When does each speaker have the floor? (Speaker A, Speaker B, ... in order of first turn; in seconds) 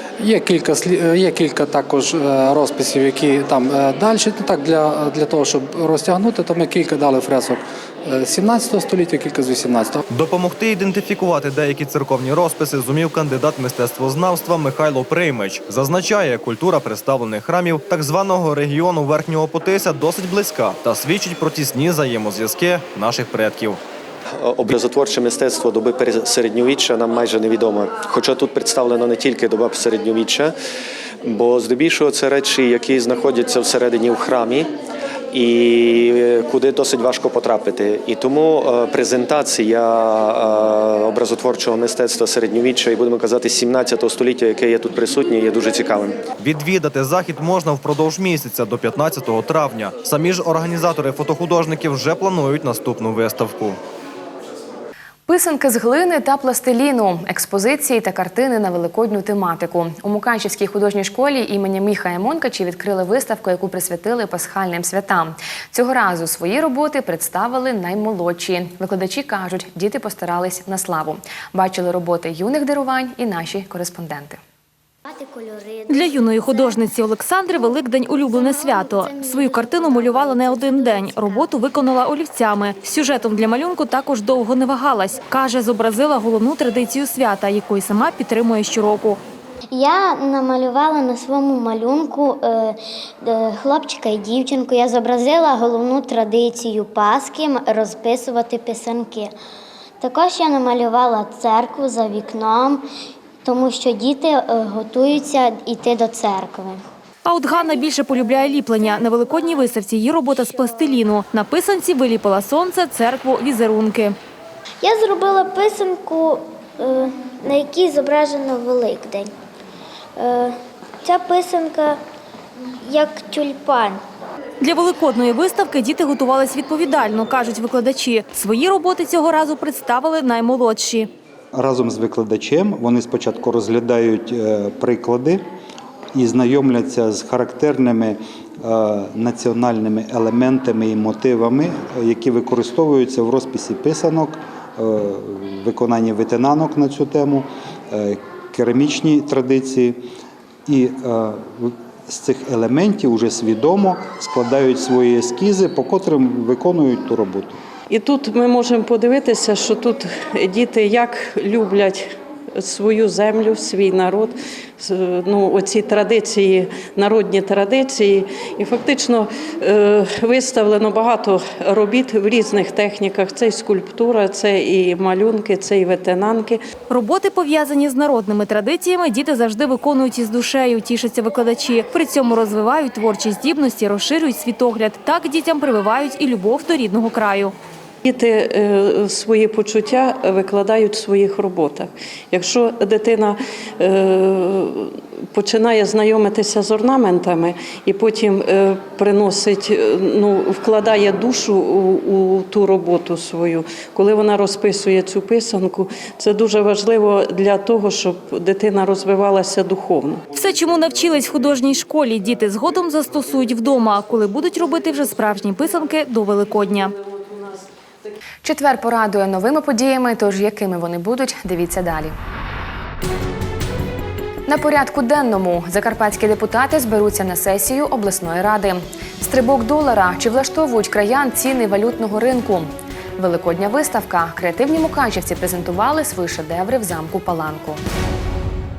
Speaker A: 0.2-10.0
Speaker B: 10.1-23.8, 46.4-53.8
Speaker C: 24.4-30.5, 31.2-34.7, 35.3-46.2
Speaker D: 55.3-74.4, 218.4-222.1, 224.5-237.8
Speaker E: 75.0-76.8, 78.3-81.4, 89.7-99.3, 100.0-102.8, 103.4-106.8, 114.8-119.3, 120.2-122.0, 122.8-124.0
Speaker F: 75.9-89.2, 107.2-114.2, 124.6-131.1, 176.9-187.5, 210.3-216.9
Speaker G: 131.5-135.4, 136.1-150.0, 150.7-157.6
Speaker H: 157.9-176.6, 188.0-210.2